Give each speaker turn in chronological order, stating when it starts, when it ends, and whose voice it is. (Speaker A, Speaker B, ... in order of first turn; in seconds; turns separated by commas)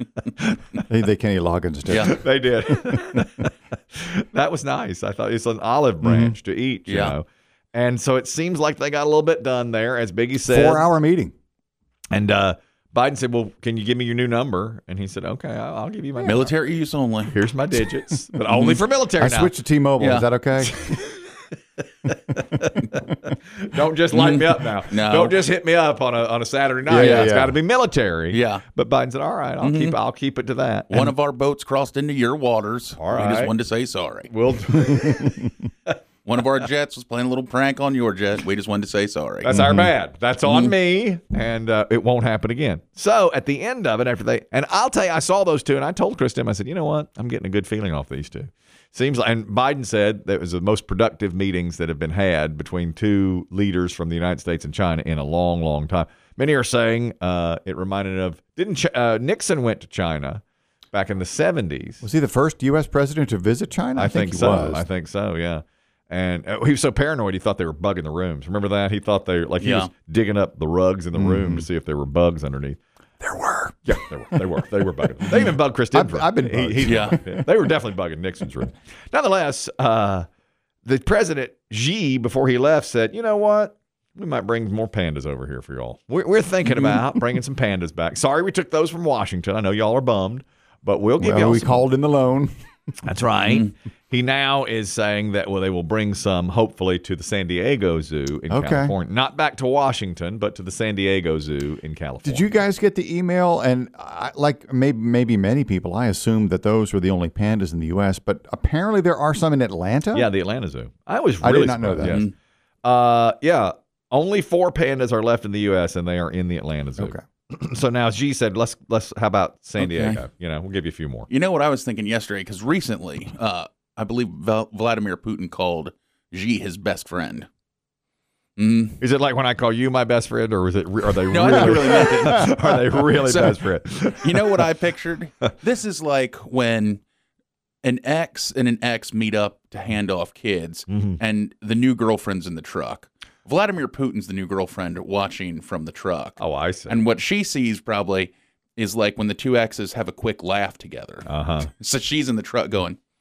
Speaker A: 0.3-0.8, Speaker B: 0.9-3.3, Speaker A: 1.9-10.8, Speaker C: 1.9-2.1, Speaker B: 6.0-6.3, Speaker C: 6.9-7.1, Speaker B: 10.4-11.3, Speaker A: 12.1-16.5, Speaker C: 16.2-17.4, Speaker A: 17.3-19.5, Speaker C: 18.5-18.8, Speaker B: 19.2-20.9, Speaker C: 20.0-20.3, Speaker A: 20.7-21.4, Speaker A: 22.0-31.1, Speaker C: 24.1-25.4, Speaker B: 26.9-27.6, Speaker C: 27.0-27.3, Speaker C: 28.3-28.6, Speaker C: 29.6-30.0, Speaker C: 30.9-34.3, Speaker A: 33.0-33.5, Speaker A: 34.3-35.9, Speaker B: 35.0-35.5, Speaker C: 36.2-39.6, Speaker A: 39.4-62.0, Speaker B: 39.5-39.9, Speaker C: 40.5-40.7, Speaker B: 62.0-64.8, Speaker A: 64.0-72.8, Speaker C: 69.6-69.9, Speaker B: 71.2-71.7, Speaker B: 73.2-74.5, Speaker A: 73.8-80.3, Speaker B: 75.3-77.5, Speaker C: 76.8-77.2, Speaker A: 80.8-91.8, Speaker B: 91.2-92.5, Speaker A: 93.0-102.5, Speaker B: 98.5-98.9, Speaker B: 102.2-110.3, Speaker A: 110.1-112.3, Speaker B: 111.4-112.2, Speaker C: 112.0-112.3, Speaker A: 112.8-121.3, Speaker C: 119.8-120.2, Speaker C: 121.3-127.5, Speaker C: 128.6-129.0, Speaker A: 129.0-134.7, Speaker C: 131.3-137.0, Speaker B: 132.0-132.4, Speaker C: 137.8-153.0, Speaker A: 140.9-141.2, Speaker A: 146.4-147.0, Speaker A: 151.2-151.7